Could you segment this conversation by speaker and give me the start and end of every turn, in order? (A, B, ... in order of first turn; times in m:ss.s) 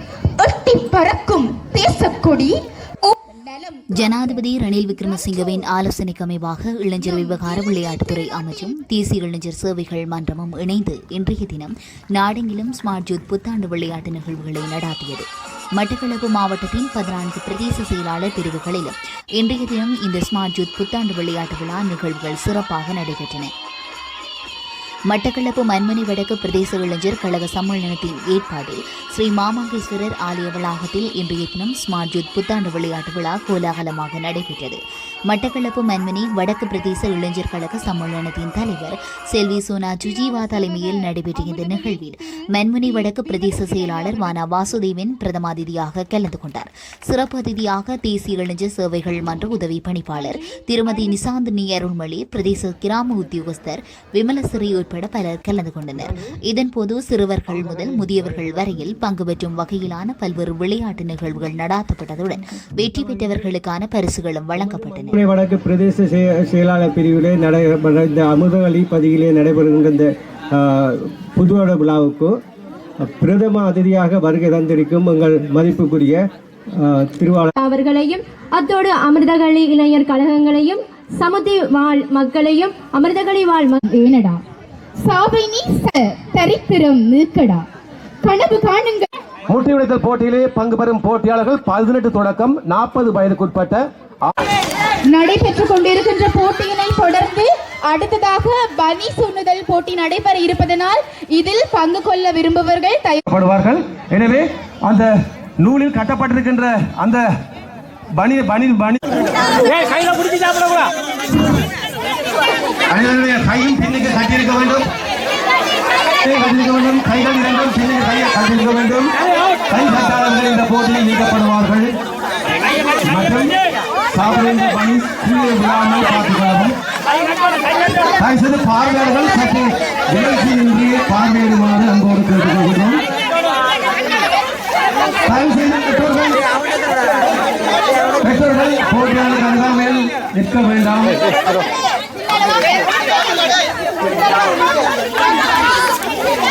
0:00.4-0:04.2 A
0:04.0-0:23.5 B
0:25.1-1:05.1 B
1:05.1-1:10.1 C
1:11.4-1:12.3 C
1:13.1-1:16.1 C
1:17.2-1:17.5 C
1:17.6-1:23.8 D
1:23.8-1:24.4 A
1:25.0-1:27.7 A
1:28.2-1:29.1 A
1:29.5-1:34.3 E
1:35.1-1:43.2 A
1:43.3-1:45.1 E
1:45.6-1:47.2 E
1:48.2-1:49.2 E
1:52.9-1:54.9 E
1:56.2-1:59.1 E
1:59.7-2:01.9 E
2:03.0-2:03.6 E
2:04.1-2:06.8 E
2:08.2-2:13.0 E
2:15.2-2:16.4 E
2:18.2-2:21.2 E